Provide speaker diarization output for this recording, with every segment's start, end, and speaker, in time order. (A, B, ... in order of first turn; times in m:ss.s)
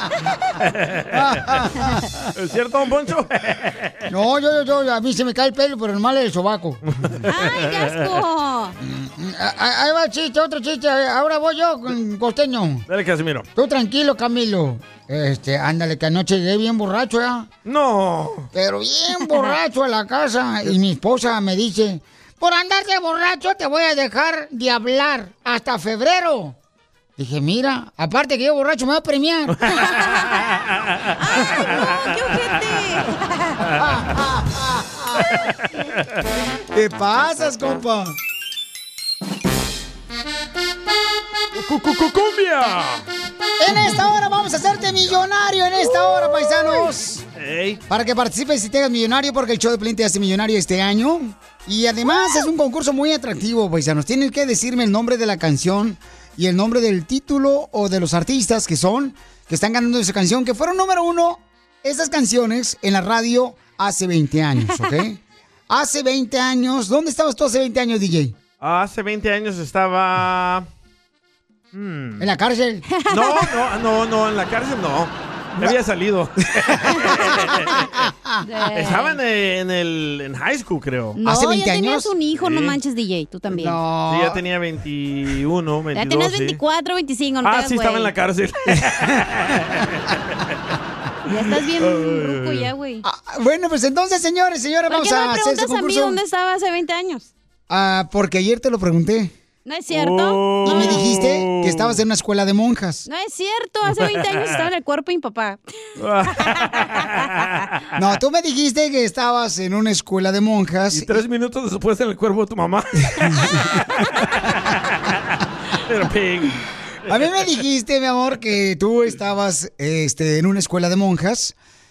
0:00.6-0:01.4 A
0:01.1-0:02.3 B
0:02.3-0:03.9 A
0:04.1-0:06.8 B
0:06.9-0:08.1 A
0:07.3-0:08.8 C
0:08.8-0:12.8 B
0:12.9-0:13.5 A
0:13.6-0:17.5 B
0:17.6-0:18.5 A
0:18.5-0:26.6 B
0:27.2-0:29.6 B
0:29.7-0:31.1 A
0:29.8-0:30.5 C
0:31.2-0:33.6 C
0:33.8-0:35.4 B
0:36.7-0:38.2 B
0:41.5-0:43.0 A
0:43.6-0:47.2 B
0:47.3-0:47.8 A
0:47.9-1:08.4 B
1:08.6-1:10.7 A
1:11.7-1:12.3 A
1:12.2-1:12.9 B
1:12.9-1:13.5 C
1:13.1-1:17.8 A
1:17.8-1:18.4 B
1:18.4-1:19.2 C
1:18.7-1:21.2 A
1:21.2-1:23.8 C
1:21.2-1:22.1 B
1:22.3-1:22.8 A
1:23.5-1:24.4 B
1:24.1-1:26.6 A
1:25.9-1:28.1 C
1:27.4-1:29.9 A
1:31.3-1:33.0 C
1:31.8-1:32.7 A
1:33.0-1:36.2 B
1:34.9-1:37.3 C
1:37.7-1:39.3 B
1:39.6-1:41.0 C
1:39.9-1:42.0 A
1:40.6-1:43.0 B
1:43.0-1:45.6 C
1:43.9-1:44.6 A
1:46.0-1:47.5 A
1:46.4-1:47.0 C
1:48.0-1:51.2 B
1:50.9-1:53.4 A
1:53.2-1:53.7 B
1:54.5-1:55.2 A
1:55.8-1:57.5 A
1:57.1-2:01.5 B